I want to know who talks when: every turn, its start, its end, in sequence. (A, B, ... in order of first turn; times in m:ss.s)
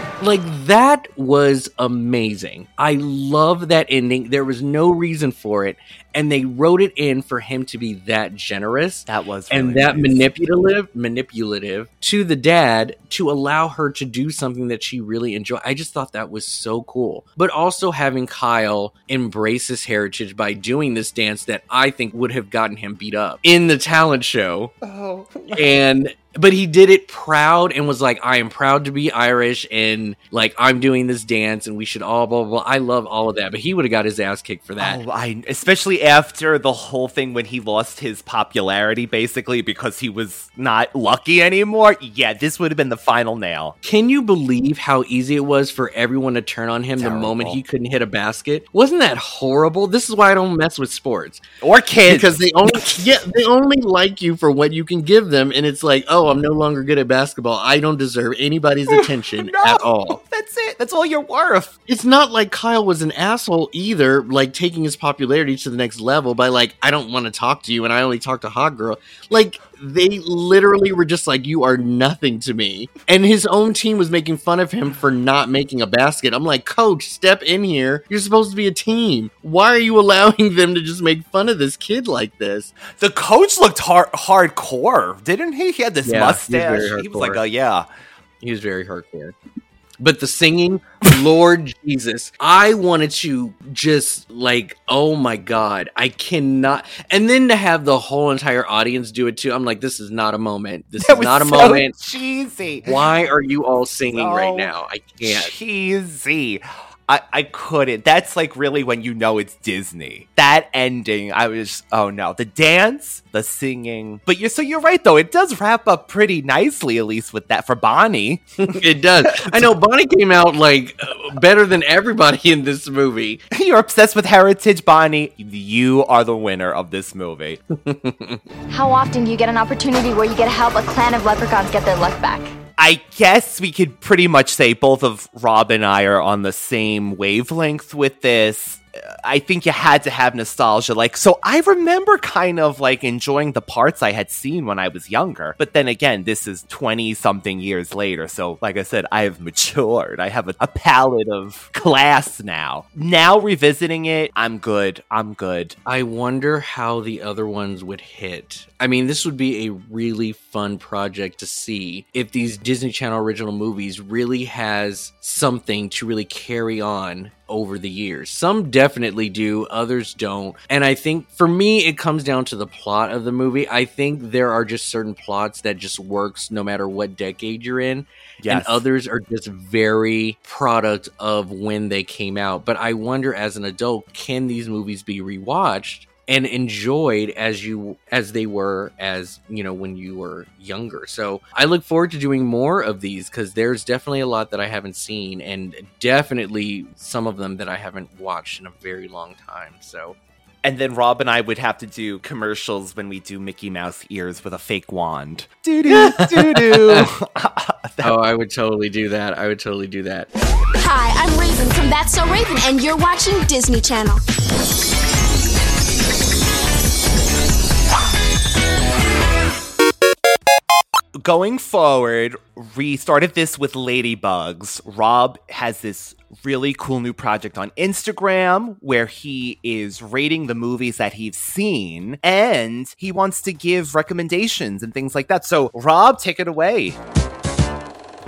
0:00.2-0:24.7 A
0:09.1-0:10.3 B
0:24.8-0:25.6 B
0:25.5-0:35.0 A
0:34.8-0:43.8 B
0:43.8-0:51.4 A
0:47.0-0:47.6 B
0:51.6-0:52.9 B
0:52.0-1:00.2 A
0:58.9-1:01.7 B
1:01.9-1:22.7 A
1:22.9-1:27.9 B
1:26.0-1:27.4 A
1:28.4-1:29.3 A
1:30.0-1:41.9 A
1:41.0-1:42.9 B
1:42.8-1:45.5 A
1:44.1-1:58.4 B
1:58.6-2:03.4 A
1:59.3-1:59.7 B
2:03.5-2:07.6 B
2:07.8-2:08.4 A
2:08.7-2:12.5 C
2:12.8-2:35.8 B
2:35.8-3:20.2 A
2:58.4-2:58.8 B
3:20.6-3:28.2 B
3:25.9-3:27.1 A
3:28.0-3:30.3 A
3:30.8-3:34.2 D
3:41.2-3:57.0 B